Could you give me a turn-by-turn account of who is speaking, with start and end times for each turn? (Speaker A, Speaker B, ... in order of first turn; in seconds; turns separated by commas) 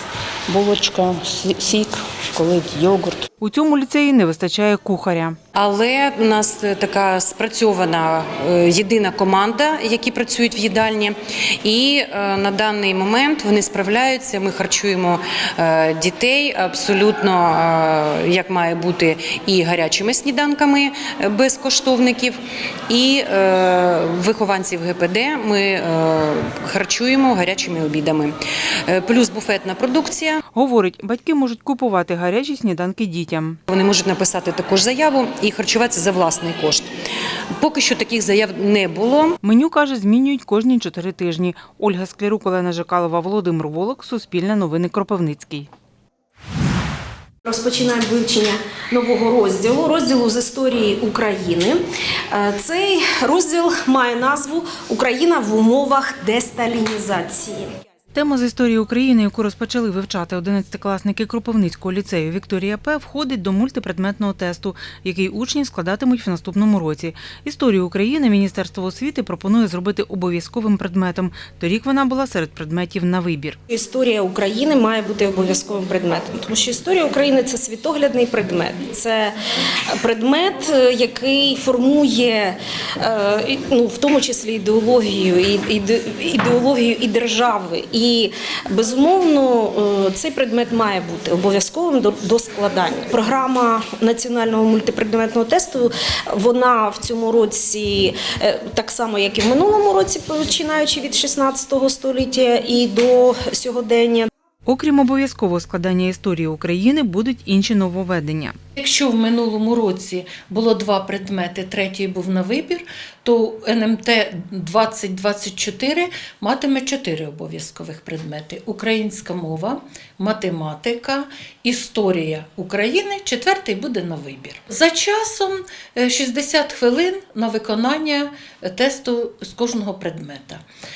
Speaker A: 0.5-3.3, Speaker B: 3.4-5.4, Speaker C: 5.5-30.4, Speaker B: 30.5-33.6, Speaker C: 33.7-36.9, Speaker C: 37.5-39.3, Speaker B: 39.4-45.7, Speaker D: 47.4-57.7, Speaker B: 58.1-73.6, Speaker D: 73.7-79.3, Speaker D: 79.9-104.3, Speaker B: 104.7-108.5, Speaker E: 108.8-130.6